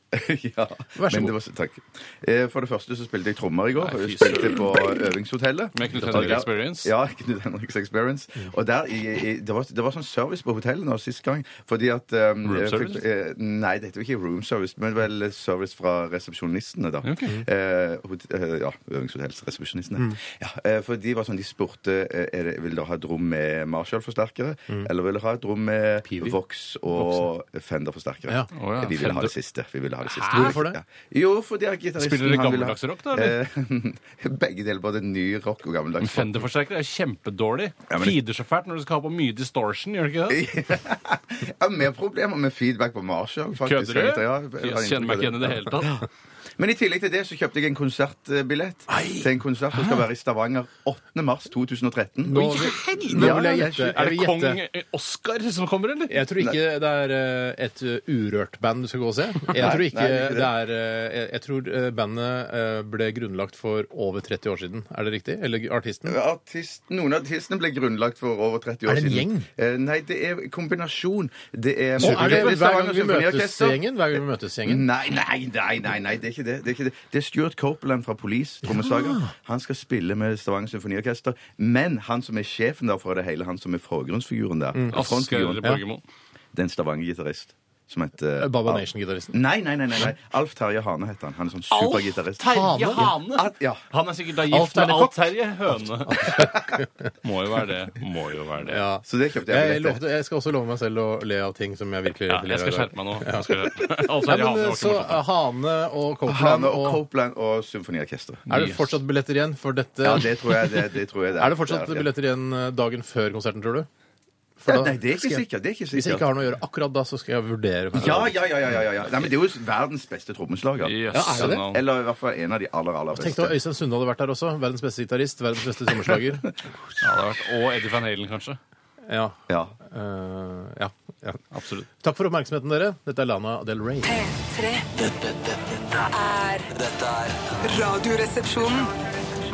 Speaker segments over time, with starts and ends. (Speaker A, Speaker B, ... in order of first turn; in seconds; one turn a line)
Speaker A: 0.1-36.5
Speaker B: 0.9-1.3
Speaker C: 3.8-4.8
Speaker C: 5.7-6.9
Speaker B: 5.9-6.4
Speaker C: 12.4-13.0
Speaker C: 17.0-17.4
Speaker B: 26.0-26.4
Speaker B: 27.0-27.2
Speaker C: 28.5-29.3
Speaker B: 30.1-30.8
Speaker C: 32.0-33.4
Speaker C: 36.0-40.5
Speaker A: 37.9-38.2
Speaker A: 40.3-46.0
Speaker C: 43.6-46.0
Speaker A: 46.6-53.7
Speaker B: 48.9-49.3
Speaker B: 52.2-54.6
Speaker C: 52.3-56.2
Speaker B: 56.1-66.2
Speaker A: 59.5-60.5
Speaker A: 66.0-85.7
Speaker B: 68.8-69.5
Speaker B: 72.0-74.8
Speaker C: 72.0-72.5
Speaker B: 78.6-79.3
Speaker B: 84.7-85.0
Speaker C: 84.9-86.0
Speaker A: 86.5-93.8
Speaker B: 88.4-89.4
Speaker C: 91.7-96.5
Speaker B: 92.5-93.1
Speaker B: 94.5-95.3
Speaker B: 96.0-97.1
Speaker C: 97.2-98.8
Speaker B: 98.7-107.0
Speaker A: 99.0-100.0
Speaker C: 102.3-105.2
Speaker A: 106.3-108.4
Speaker C: 108.5-109.0
Speaker B: 108.5-110.7
Speaker A: 110.0-112.1
Speaker B: 111.4-113.9
Speaker B: 114.6-118.4
Speaker A: 114.7-116.3
Speaker A: 117.9-123.5
Speaker C: 120.8-121.8
Speaker B: 121.1-121.7
Speaker B: 123.1-126.5
Speaker C: 127.0-128.6
Speaker B: 129.1-131.4
Speaker A: 129.5-129.8
Speaker C: 131.5-131.9
Speaker B: 132.0-134.2
Speaker D: 134.0-134.9
Speaker E: 134.9-136.1
Speaker D: 136.1-136.7
Speaker E: 136.7-137.6
Speaker D: 137.6-138.9